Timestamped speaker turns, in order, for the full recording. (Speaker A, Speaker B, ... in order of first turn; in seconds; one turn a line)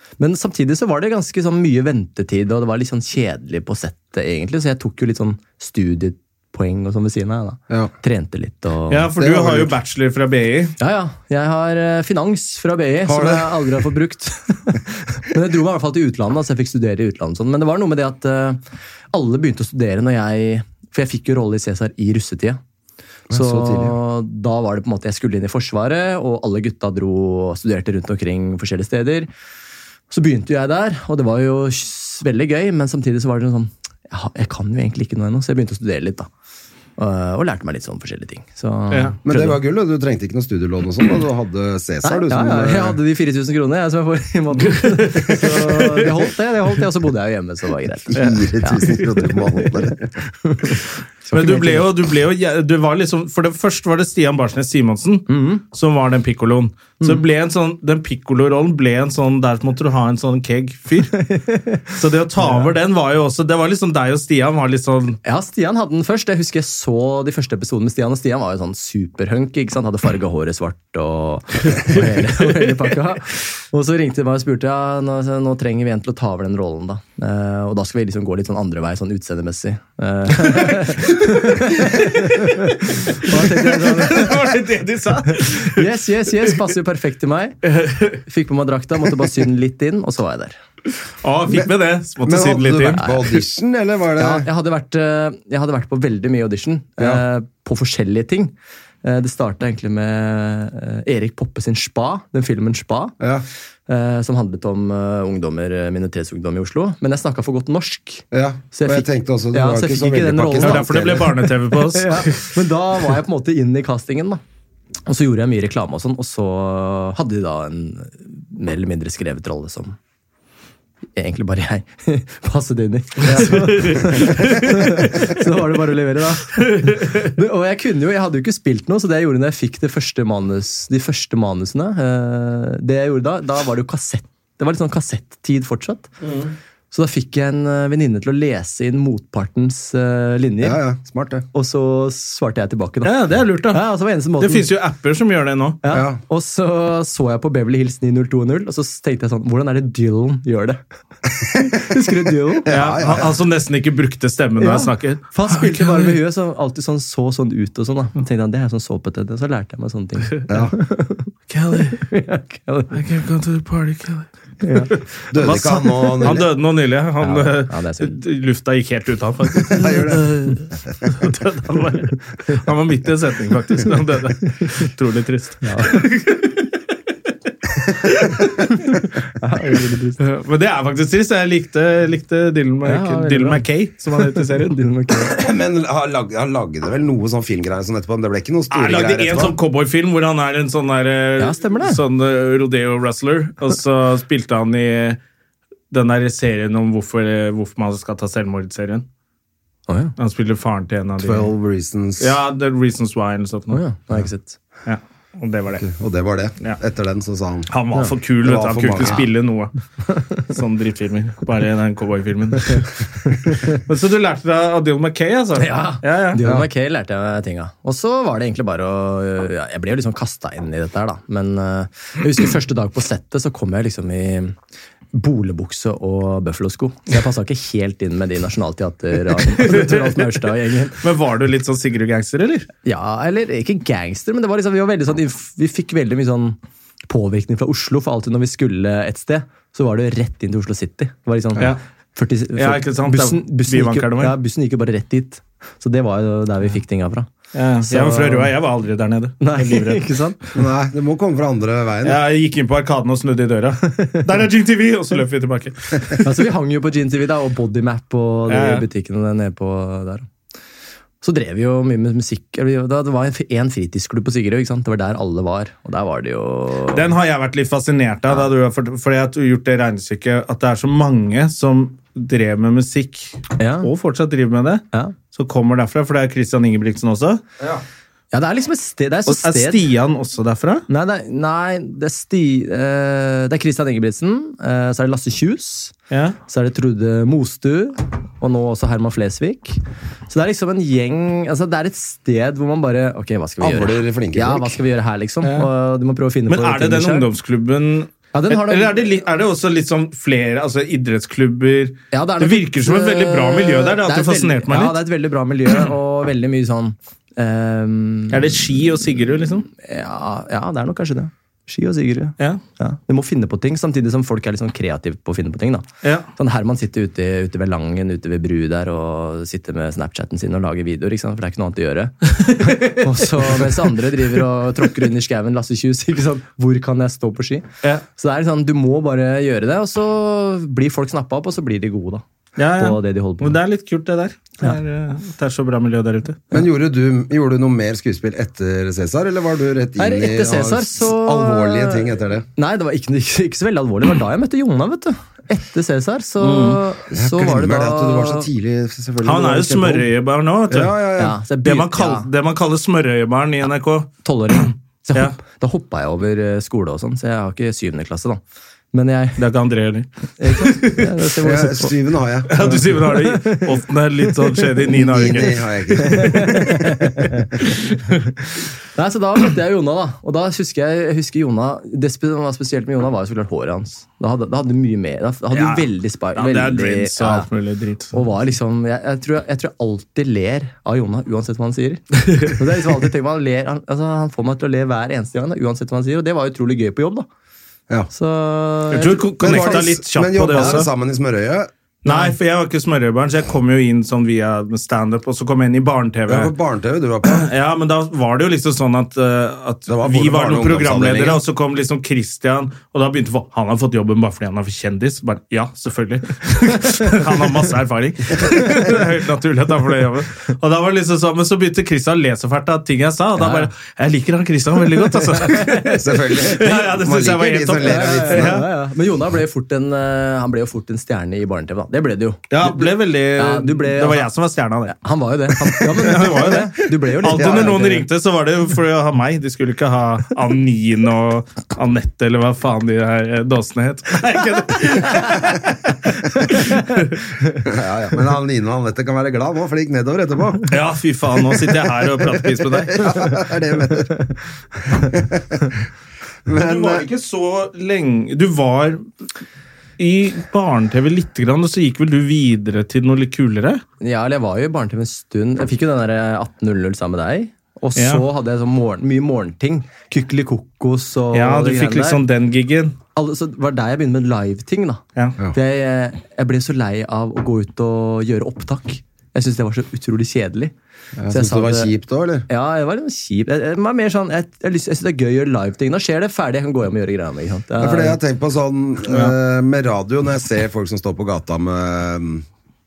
Speaker A: 0.2-9.1
Speaker B: 8.9-10.8
Speaker C: 9.2-9.7
Speaker A: 10.8-18.6
Speaker C: 13.1-13.9
Speaker A: 19.1-22.6
Speaker C: 23.3-24.0
Speaker A: 23.3-29.3
Speaker A: 30.1-36.3
Speaker A: 37.0-39.5
Speaker B: 38.9-39.4
Speaker C: 39.2-43.0
Speaker A: 42.0-49.0
Speaker B: 44.7-46.2
Speaker C: 48.1-50.1
Speaker B: 48.1-49.0
Speaker A: 50.2-51.9
Speaker B: 51.3-61.3
Speaker A: 55.3-55.6
Speaker A: 61.1-62.7
Speaker B: 61.9-65.2
Speaker A: 65.2-84.4
Speaker B: 72.3-72.7
Speaker B: 80.4-85.9
Speaker A: 85.3-87.6
Speaker B: 87.6-88.2
Speaker A: 88.1-90.6
Speaker B: 91.2-93.1
Speaker C: 92.2-94.5
Speaker A: 93.0-93.4
Speaker A: 94.2-103.1
Speaker C: 97.0-97.2
Speaker C: 103.2-103.5
Speaker A: 103.9-114.4
Speaker C: 108.3-111.4
Speaker B: 110.5-112.5
Speaker A: 115.1-120.0
Speaker A: 121.2-136.1
Speaker B: 123.2-125.2
Speaker B: 126.5-127.3
Speaker B: 136.2-136.5
Speaker A: 136.9-140.8
Speaker C: 140.6-141.4
Speaker A: 141.5-143.2
Speaker B: 143.0-143.8
Speaker A: 143.7-144.7
Speaker B: 144.4-145.8
Speaker A: 145.8-150.8
Speaker C: 145.9-146.2
Speaker A: 151.4-152.7
Speaker C: 151.5-151.8
Speaker C: 152.6-153.3
Speaker B: 152.7-156.2
Speaker A: 154.6-161.3
Speaker B: 161.5-162.0
Speaker A: 161.9-162.9
Speaker B: 162.9-176.6
Speaker A: 164.6-164.9
Speaker C: 165.3-166.4
Speaker A: 167.2-168.2
Speaker C: 169.7-170.2
Speaker A: 175.6-176.1
Speaker B: 177.8-178.8
Speaker A: 178.7-180.2
Speaker B: 180.2-184.8
Speaker A: 182.8-183.6
Speaker A: 184.2-185.4
Speaker C: 185.2-189.6
Speaker B: 188.7-195.2
Speaker A: 191.4-192.0
Speaker B: 195.9-199.0
Speaker A: 199.9-200.1
Speaker B: 200.2-201.5
Speaker C: 201.2-202.4
Speaker B: 202.2-203.8
Speaker A: 203.7-204.6
Speaker B: 204.8-205.8
Speaker C: 205.8-207.7
Speaker B: 207.7-209.7
Speaker C: 208.4-209.2
Speaker B: 210.3-216.4
Speaker A: 213.2-213.8
Speaker A: 215.6-224.5
Speaker C: 216.4-216.7
Speaker A: 225.1-231.0
Speaker B: 229.3-230.4
Speaker B: 231.0-232.7
Speaker A: 232.8-236.6
Speaker A: 237.1-247.3
Speaker B: 242.6-244.3
Speaker B: 247.5-250.2
Speaker A: 247.8-248.5
Speaker A: 249.4-250.4
Speaker C: 250.5-252.2
Speaker B: 252.0-256.4
Speaker A: 256.2-260.3
Speaker B: 258.5-258.9
Speaker A: 261.2-267.1
Speaker B: 266.9-277.4
Speaker A: 273.6-273.9
Speaker A: 278.3-279.8
Speaker B: 279.3-280.8
Speaker A: 280.9-285.9
Speaker B: 286.1-286.4
Speaker A: 286.5-297.3
Speaker C: 293.6-294.8
Speaker B: 295.4-295.7
Speaker B: 296.5-305.0
Speaker A: 298.3-299.0
Speaker A: 302.1-308.6
Speaker B: 308.3-309.7
Speaker A: 309.7-332.2
Speaker B: 322.4-323.8
Speaker B: 332.6-336.4
Speaker A: 332.7-333.6
Speaker C: 336.5-342.4
Speaker A: 340.0-348.5
Speaker B: 346.4-346.8
Speaker C: 347.1-350.1
Speaker B: 349.2-350.9
Speaker C: 350.7-351.4
Speaker A: 351.2-352.3
Speaker B: 351.6-355.3
Speaker A: 354.2-358.4
Speaker A: 358.9-359.4
Speaker B: 359.4-361.1
Speaker A: 360.4-361.9
Speaker C: 361.4-362.9
Speaker B: 362.5-366.6
Speaker A: 362.6-363.8
Speaker C: 364.9-367.1
Speaker A: 366.0-367.5
Speaker B: 367.9-368.1
Speaker A: 368.9-377.5
Speaker B: 375.5-378.1
Speaker A: 378.1-387.3
Speaker A: 388.1-389.9
Speaker B: 388.9-390.9
Speaker C: 389.4-391.7
Speaker A: 390.5-390.8
Speaker B: 392.0-396.5
Speaker A: 392.1-392.3
Speaker C: 396.3-397.5
Speaker B: 397.2-418.7
Speaker C: 399.9-401.4
Speaker A: 413.4-413.7
Speaker A: 415.1-416.8
Speaker C: 415.9-418.6
Speaker A: 417.8-424.3
Speaker B: 422.5-424.9
Speaker A: 424.8-428.1
Speaker B: 425.7-437.2
Speaker C: 427.3-427.8
Speaker A: 436.5-436.9
Speaker C: 437.6-440.7
Speaker B: 440.7-443.3
Speaker C: 442.6-444.2
Speaker C: 445.0-445.7
Speaker C: 446.4-447.1
Speaker B: 446.5-449.0
Speaker B: 450.0-453.8
Speaker A: 454.0-462.2
Speaker B: 457.9-458.2
Speaker B: 461.3-463.0
Speaker A: 463.1-465.0
Speaker A: 465.5-470.7
Speaker C: 471.2-472.4
Speaker A: 471.3-471.9
Speaker A: 472.5-478.2
Speaker C: 477.8-482.5
Speaker B: 479.1-479.3